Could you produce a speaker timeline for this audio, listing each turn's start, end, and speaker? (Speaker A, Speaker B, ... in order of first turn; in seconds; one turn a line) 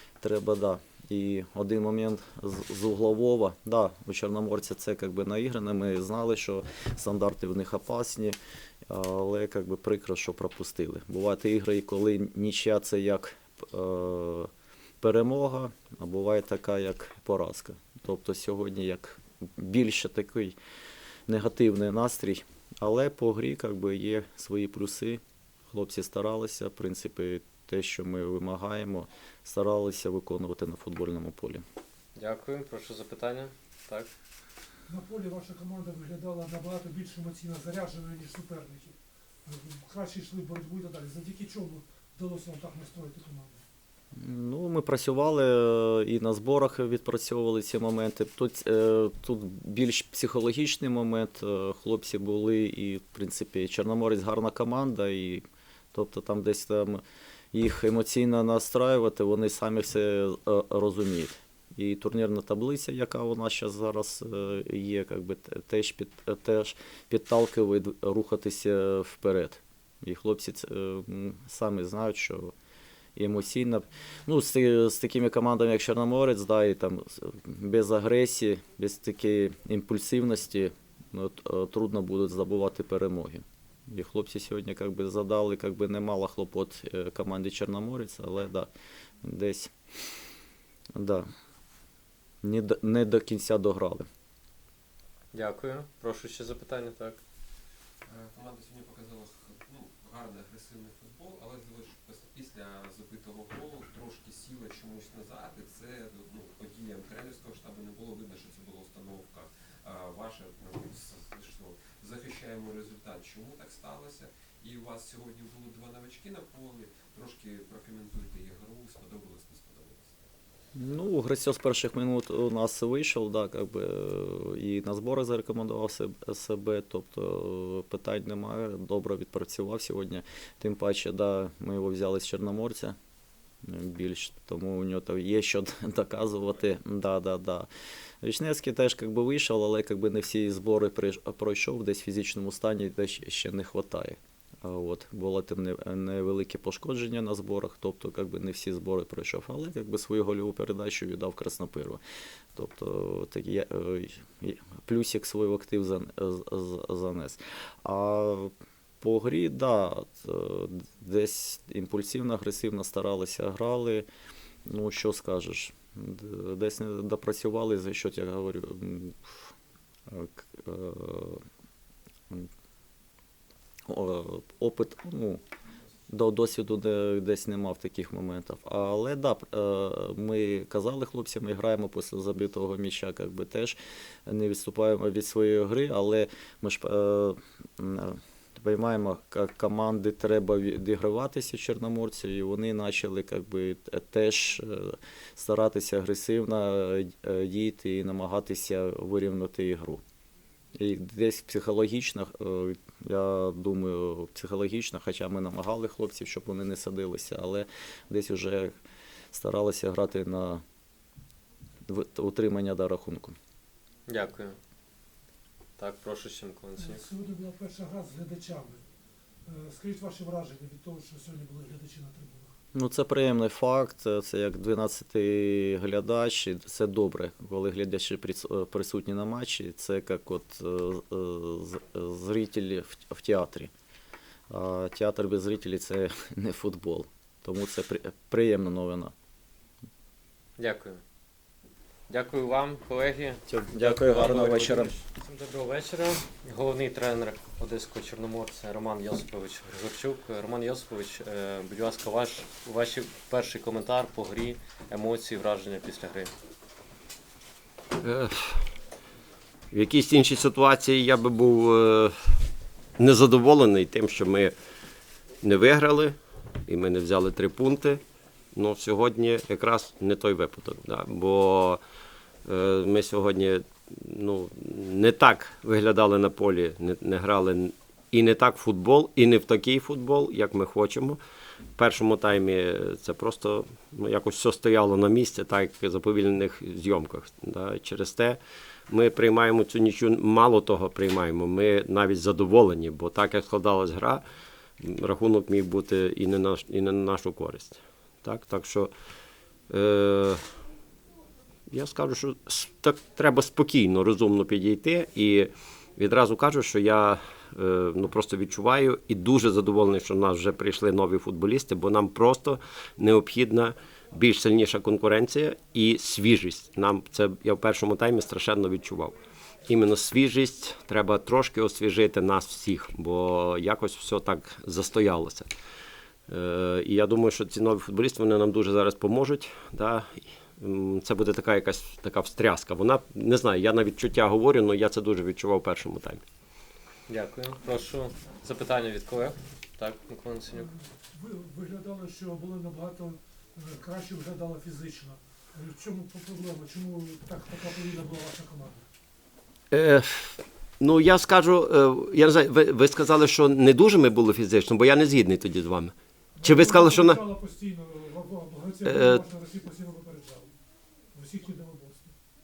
Speaker A: 0.2-8.4
Speaker A: 8.9-14.5
Speaker A: 15.0-20.6
Speaker A: 21.3-31.6
Speaker B: 32.1-34.1
Speaker C: 34.9-43.6
Speaker A: 44.1-57.0
Speaker A: 57.5-72.5
Speaker A: 73.2-88.7
Speaker A: 89.2-89.7
Speaker A: 91.0-91.2
Speaker A: 92.4-94.0
Speaker B: 95.3-97.2
Speaker D: 98.0-120.2
Speaker A: 120.7-132.9
Speaker A: 133.6-137.7
Speaker A: 138.2-152.0
Speaker A: 152.5-164.1
Speaker A: 164.7-169.3
Speaker A: 170.1-171.4
Speaker A: 173.9-175.4
Speaker A: 176.1-200.0
Speaker A: 200.7-208.7
Speaker A: 209.3-210.6
Speaker A: 211.9-213.3
Speaker B: 214.1-214.6
Speaker B: 215.8-217.0
Speaker C: 216.8-218.8
Speaker C: 219.4-222.5
Speaker A: 222.7-233.7
Speaker A: 234.5-239.1
Speaker B: 240.6-241.0
Speaker B: 242.1-256.3
Speaker A: 243.5-244.9
Speaker E: 258.0-258.6
Speaker E: 259.7-262.1
Speaker E: 263.0-264.5
Speaker E: 265.4-268.0
Speaker E: 268.5-271.8
Speaker E: 272.4-281.2
Speaker E: 281.8-294.2
Speaker E: 294.8-298.9
Speaker E: 299.7-300.4
Speaker E: 301.7-325.5
Speaker E: 326.3-336.2
Speaker B: 337.1-340.7
Speaker C: 340.5-348.8
Speaker E: 349.7-357.2
Speaker C: 356.4-360.5
Speaker E: 358.8-359.2
Speaker C: 361.1-362.1